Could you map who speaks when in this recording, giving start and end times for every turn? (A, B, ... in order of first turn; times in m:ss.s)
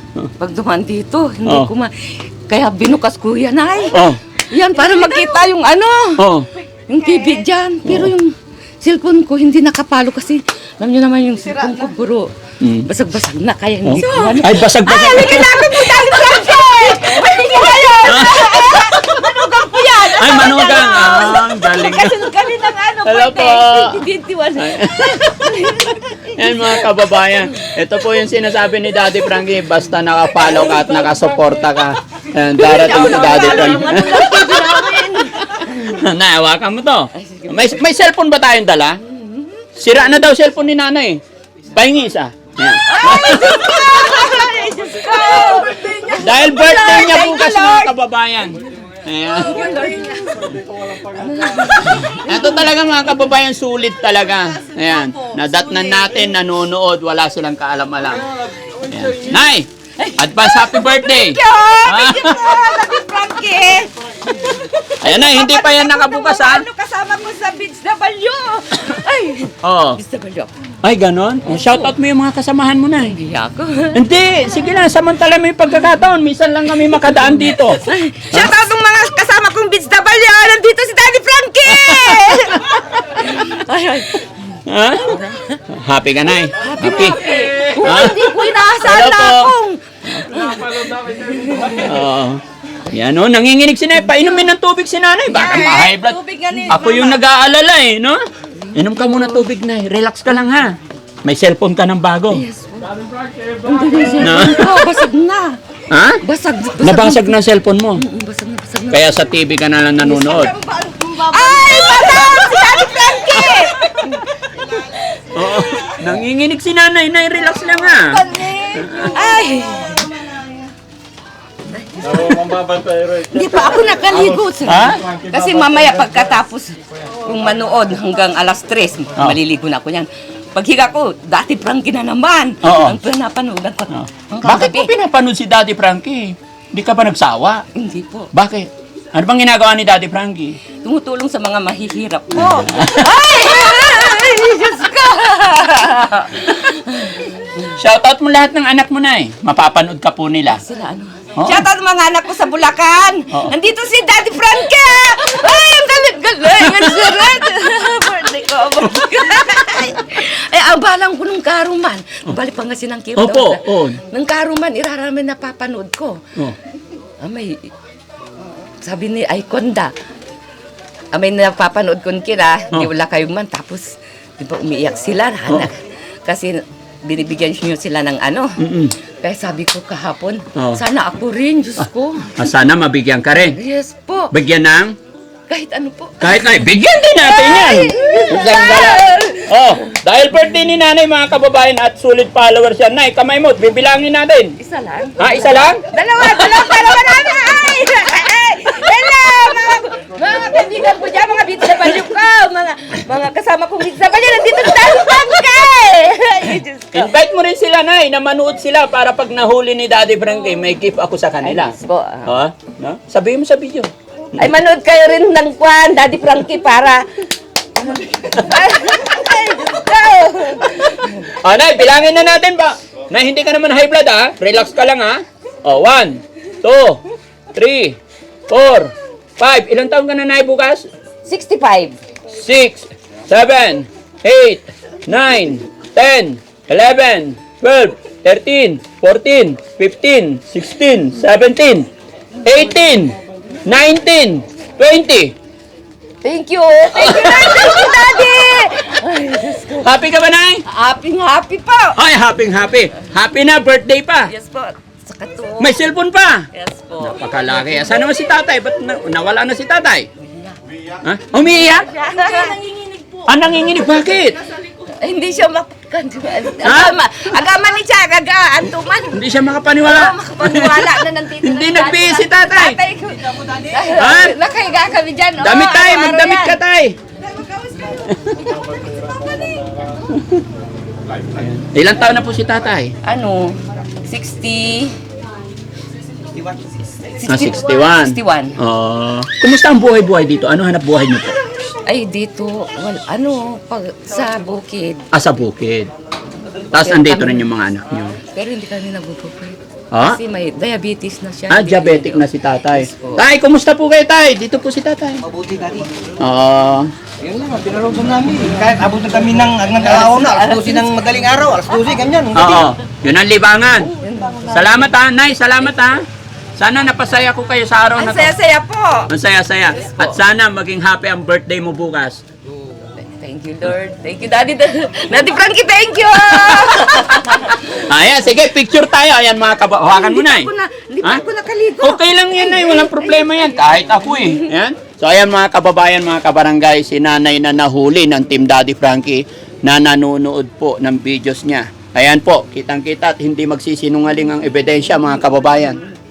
0:00.4-0:06.3 A
0:01.4-0:01.7 B
0:03.9-0:04.2 B
0:06.2-0:06.5 B
0:06.9-0:12.3 A
0:07.8-0:08.1 B
0:12.6-0:12.9 B
0:12.8-0:27.7 A
0:13.8-0:16.0 B
0:18.0-0:19.1 B
0:20.1-0:22.3 B
0:23.0-0:25.7 B
0:26.3-0:34.8 B
0:32.6-0:36.0 A
0:35.5-0:39.0 B
0:37.1-0:37.8 A
0:39.1-0:39.7 A
0:39.8-0:41.2 B
0:41.7-0:44.0 B
0:42.9-0:47.9 A
0:46.1-0:49.8 B
0:49.3-0:52.7 A
0:51.6-1:02.6 B
1:00.0-1:10.5 A
1:05.0-1:06.6 B
1:09.6-1:10.0 B
1:10.8-1:13.2 B
1:11.5-1:11.9 A
1:13.0-1:14.0 A
1:13.9-1:18.6 B
1:17.1-1:25.6 A
1:21.7-1:22.8 B
1:24.6-1:29.5 B
1:26.6-1:32.0 A
1:30.2-1:30.5 B
1:31.7-1:38.2 B
1:35.3-1:37.2 A
1:38.7-1:42.4 B
1:42.3-1:45.6 A
1:44.2-1:44.9 B
1:45.9-1:46.2 B
1:46.2-1:47.4 A
1:46.8-1:48.0 B
1:48.0-1:49.1 A
1:48.9-1:50.6 B
1:50.1-1:55.1 A
1:53.4-1:53.7 B
1:55.3-1:59.2 B
1:58.1-2:00.4 A
2:01.7-2:14.9 A
2:02.3-2:03.2 B
2:04.6-2:05.1 B
2:12.6-2:13.0 B
2:13.9-2:17.6 B
2:17.8-2:18.3 A
2:18.3-2:20.6 B
2:20.8-2:27.5 A
2:22.4-2:23.9 B
2:27.7-2:30.6 B
2:30.5-2:46.2 A
2:31.4-2:31.7 B
2:36.6-2:37.4 B
2:39.0-2:39.3 B
2:43.2-2:44.0 B
2:47.2-2:47.7 A
2:48.8-2:49.9 A
2:51.1-3:02.4 A
2:58.6-2:58.9 B
3:00.5-3:00.8 B
3:02.3-3:03.6 B
3:03.5-3:04.3 A
3:04.3-3:05.0 B
3:05.5-3:06.5 A
3:06.2-3:14.6 B
3:07.2-3:09.9 A
3:14.6-3:27.1 A
3:15.2-3:17.2 B
3:26.9-3:31.7 B
3:31.4-3:32.3 A
3:32.2-3:34.5 B
3:34.3-3:37.1 A
3:37.8-3:41.3 A
3:41.3-3:47.0 B
3:47.5-3:48.0 B
3:48.5-3:50.9 B
3:51.2-3:52.0 A
3:52.3-4:01.9 B
4:02.4-4:05.3 B
4:06.2-4:09.9 A
4:07.0-4:08.4 B
4:09.8-4:10.6 B
4:10.7-4:12.0 A
4:12.0-4:14.3 B
4:14.3-4:15.8 A
4:15.6-4:16.5 B
4:16.5-4:17.5 A
4:17.0-4:20.1 B
4:20.2-4:20.6 A
4:21.0-4:21.9 B
4:21.6-4:22.7 A
4:23.2-4:24.4 B
4:24.8-4:29.2 A
4:26.6-4:27.0 B
4:29.1-4:32.8 B
4:29.8-4:36.6 A
4:33.9-4:34.4 B
4:35.4-4:37.0 B
4:37.3-4:38.0 A
4:38.1-4:38.4 B
4:38.6-4:39.6 A
4:40.1-4:40.4 B
4:41.3-4:42.9 B
4:43.0-4:45.0 A
4:47.0-4:48.6 A
4:47.2-4:51.4 B
4:51.9-4:55.0 A
4:55.1-4:55.9 B
4:56.7-4:57.5 A
4:56.7-4:58.2 B
4:58.3-5:03.2 A
4:59.9-5:00.2 B
5:01.5-5:05.2 B
5:05.3-5:05.9 C
5:06.2-5:06.9 B
5:07.2-5:12.6 C
5:09.7-5:11.7 A
5:12.4-5:13.9 B
5:14.0-5:14.7 A
5:14.5-5:16.0 B
5:16.6-5:18.4 B
5:17.9-5:19.1 A
5:19.1-5:22.2 B
5:19.8-5:20.2 A
5:23.0-5:27.8 A
5:26.2-5:30.5 B
5:29.9-5:34.4 A
5:31.8-5:45.8 B